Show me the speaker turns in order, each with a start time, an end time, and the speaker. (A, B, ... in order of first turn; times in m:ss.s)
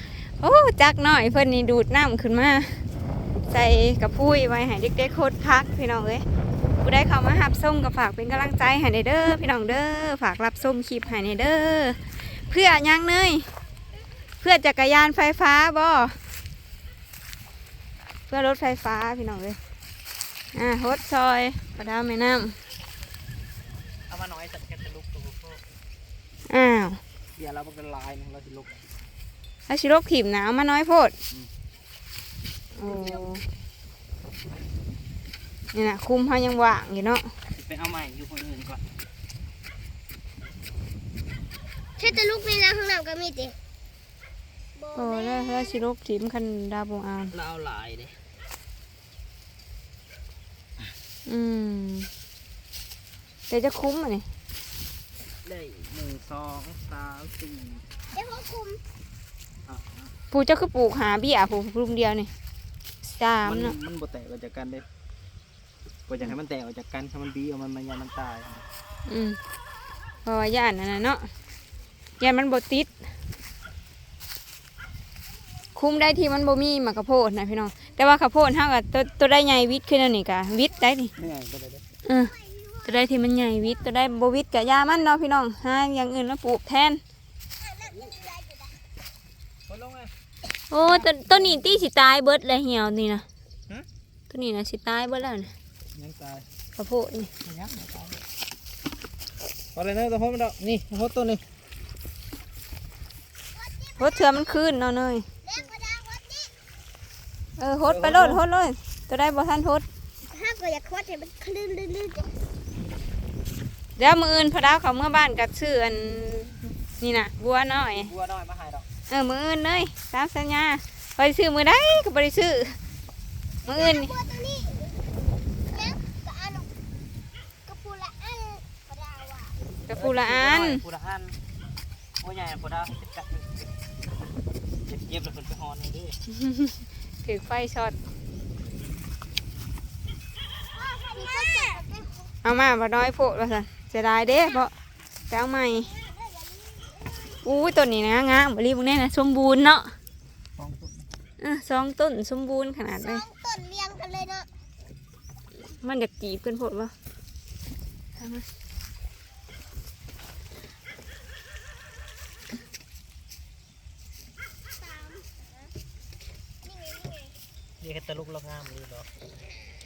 0:00.4-0:02.8 A
0:03.5-0:06.2 A
0:06.8-0:13.5 A
0:14.4-0:16.2 A
0:18.3-0:19.6 A
0:20.5-0:22.6 A
0:24.1-0:25.6 B
0:26.5-0:27.0 A
0:27.4-0:28.8 B
0:29.7-0:31.1 A
0:32.8-0:33.4 A
0:32.8-0:33.2 C
0:35.7-0:37.3 A
0:37.5-0:38.8 B
0:42.0-0:43.5 C
0:44.8-0:45.8 C
0:45.0-0:47.4 A
0:47.4-0:48.2 B
0:51.2-0:52.1 A
0:53.5-0:54.2 A
0:55.4-0:57.9 B
0:58.1-0:58.8 C
0:59.7-1:00.1 B
1:00.3-1:02.3 A
1:03.0-1:03.7 A
1:03.4-1:04.8 B
1:06.1-1:08.6 B
1:09.1-1:09.4 A
1:10.2-1:11.3 A
1:12.2-1:12.9 A
1:15.8-1:21.1 A
1:21.2-1:21.8 B
1:22.0-1:27.0 A
1:22.4-1:22.9 C
1:27.6-1:28.8 C
1:29.7-1:30.1 B
1:30.7-1:33.2 A
1:30.8-1:31.6 B
1:34.3-1:35.5 A
1:35.9-1:36.5 B
1:36.8-1:37.3 A
1:37.4-1:38.2 B
1:39.7-1:41.4 B
1:43.5-1:44.3 C
1:44.0-1:45.2 A
1:45.4-1:46.5 C
1:47.6-1:49.8 A
1:47.8-1:48.4 B
1:50.3-1:52.3 C
1:54.0-1:58.1 A
1:58.0-1:58.8 B
1:59.1-2:02.8 A
2:03.6-2:04.1 A
2:03.6-2:04.9 C
2:05.7-2:06.7 C
2:07.6-2:09.6 C
2:09.9-2:10.8 A
2:09.9-2:11.4 B
2:12.2-2:13.7 B
2:14.9-2:16.2 B
2:16.3-2:18.0 A
2:20.7-2:22.1 C
2:22.4-2:24.7 A
2:25.3-2:25.9 A
2:25.8-2:27.4 C
2:27.4-2:29.9 A
2:30.6-2:30.9 B
2:31.4-2:33.2 A
2:32.9-2:34.5 C
2:35.8-2:36.9 A
2:38.2-2:38.4 A
2:44.8-2:45.4 C
2:46.7-2:47.3 C
2:47.8-2:49.1 B